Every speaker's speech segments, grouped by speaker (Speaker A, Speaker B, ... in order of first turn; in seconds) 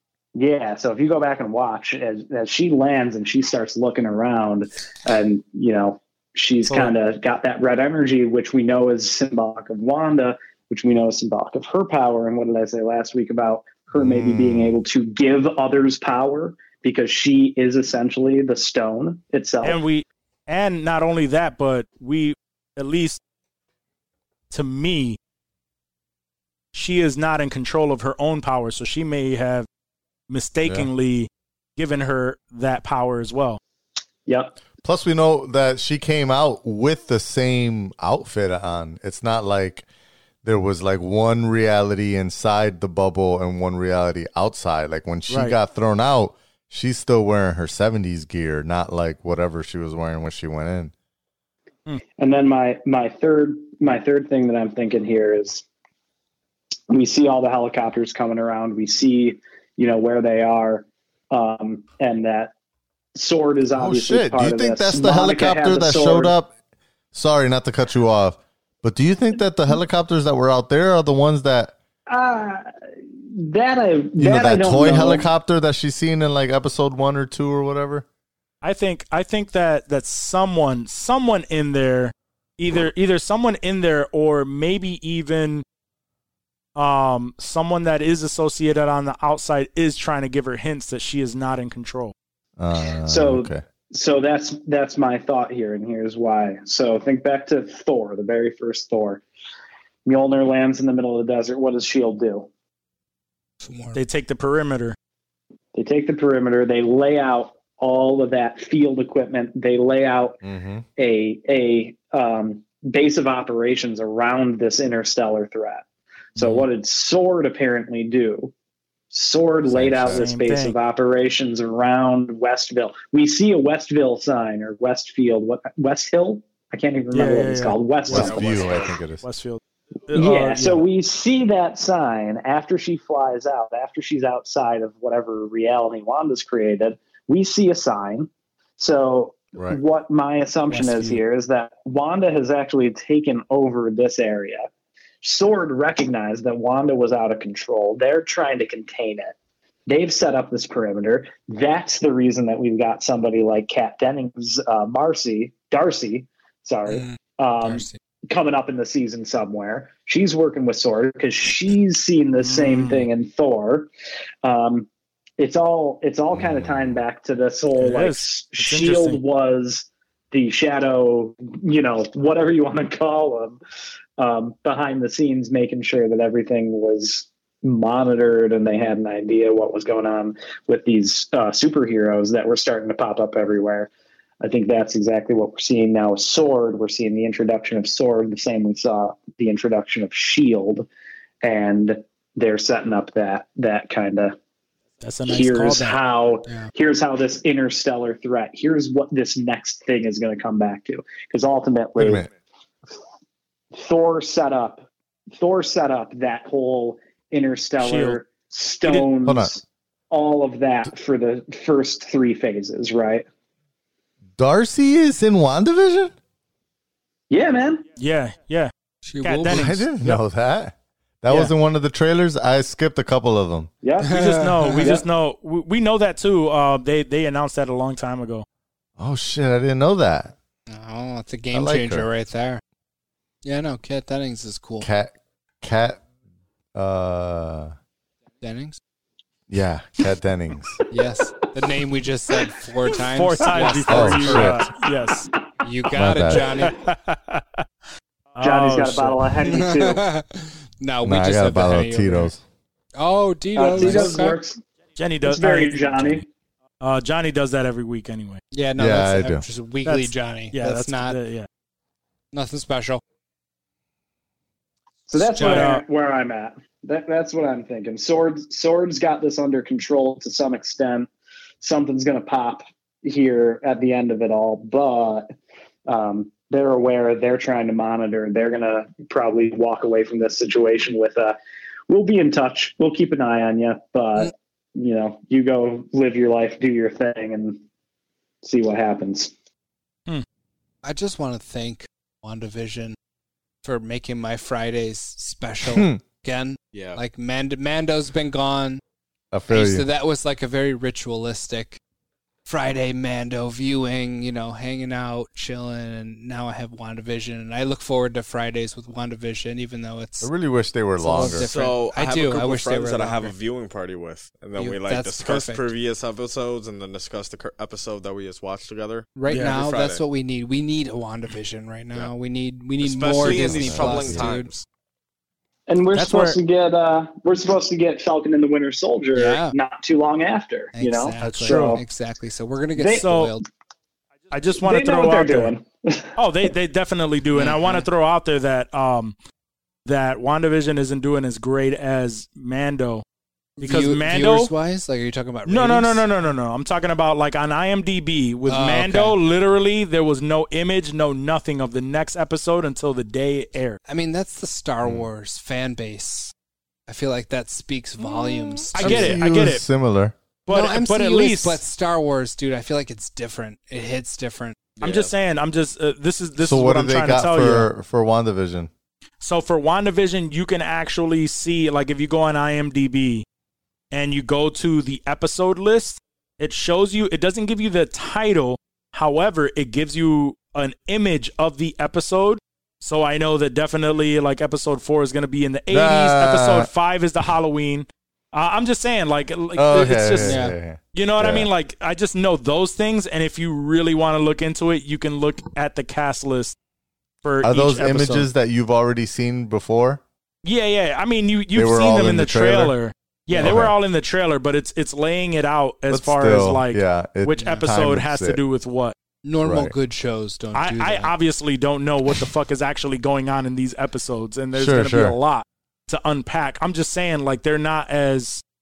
Speaker A: 0.3-19.8, 34.3-34.6, 52.2-55.6, 56.9-62.5, 63.1-66.3, 72.1-72.7, 73.3-75.3, 93.0-99.2, 100.0-102.5, 105.8-110.4, 111.0-115.8, 116.4-118.5, 119.1-128.7, 130.1-144.7, 145.2-149.3, 149.9-163.9, 164.4-164.9, 165.4-173.6, 174.2-183.9, 184.4-190.9, 191.4-194.4, 195.3-202.2, 203.7-213.3, 217.3-217.8, 223.8-224.2, 244.8-245.2, 248.4-250.1, 253.6-254.6, 255.2-256.2, 265.1-271.1, 271.6-275.3, 275.9-281.4, 281.9-287.6, 288.4-289.3, 325.7-331.8, 332.8-333.1, 334.6-336.1
Speaker B: 13.9-14.8, 34.8-39.9, 40.4-50.9, 63.8-66.5, 67.1-71.7, 74.2-78.0, 92.6-93.6, 110.4-110.8, 119.7-120.2, 128.1-129.2, 139.6-139.8, 166.3-167.0, 202.0-202.3, 209.3-209.5, 214.4-216.1, 219.5-223.7, 229.0-230.3, 231.5-232.1, 234.8-236.0, 236.8-237.7, 239.5-240.8, 243.9-244.6, 245.9-246.5, 251.0-252.4, 258.8-259.4, 295.7-296.0, 299.3-299.9, 310.2-311.5, 323.3-324.3, 358.8-360.2, 366.4-368.7, 385.7-386.7, 389.5-391.5, 397.4-400.0, 401.5-402.7, 403.4-403.8, 405.9-408.4, 409.4-409.7, 414.5-415.2
Speaker C: 19.6-23.2, 24.5-25.2, 26.7-29.7, 30.3-33.6, 45.3-45.5, 78.6-85.7, 86.8-92.1, 104.0-105.0, 116.4-116.6, 120.1-120.8, 127.1-128.5, 129.2-130.8, 140.7-141.2, 162.4-163.1, 167.8-169.2, 195.0-196.0, 207.8-208.2, 218.0-218.7, 219.2-220.2, 224.1-228.4, 243.0-245.3, 246.6-247.6, 248.4-249.3, 253.8-254.1, 255.0-256.2, 256.8-258.4, 259.9-261.5, 265.4-265.8, 326.0-326.4, 331.2-331.8, 332.9-333.4, 334.3-335.5, 336.2-339.1, 339.9-343.0, 343.6-344.5, 345.5-353.8, 358.7-359.6, 360.5-361.6, 364.8-367.7, 369.2-373.3, 373.9-390.4, 390.9-396.6, 397.2-398.3, 400.4-409.0, 410.6-418.4
Speaker D: 103.6-104.0, 156.9-157.2, 157.7-157.9, 219.0-219.8, 224.0-224.9, 230.7-232.6, 233.4-234.9, 238.4-238.8, 240.9-244.7, 245.6-246.8, 249.4-252.3, 253.0-254.4, 258.5-261.2, 262.3-263.0, 265.3-265.7, 290.8-293.0, 293.6-298.8, 299.5-301.8, 302.5-310.3, 311.0-313.3, 314.6-315.7, 319.2-324.5, 329.1-329.6, 330.7-333.4, 337.4-337.9, 343.6-346.1, 348.5-349.1, 353.9-356.3, 356.9-359.2, 360.5-364.6, 390.2-390.6, 409.2-411.1
Speaker E: 128.1-129.0, 296.7-297.0, 311.3-320.0, 322.8-324.6, 364.8-365.1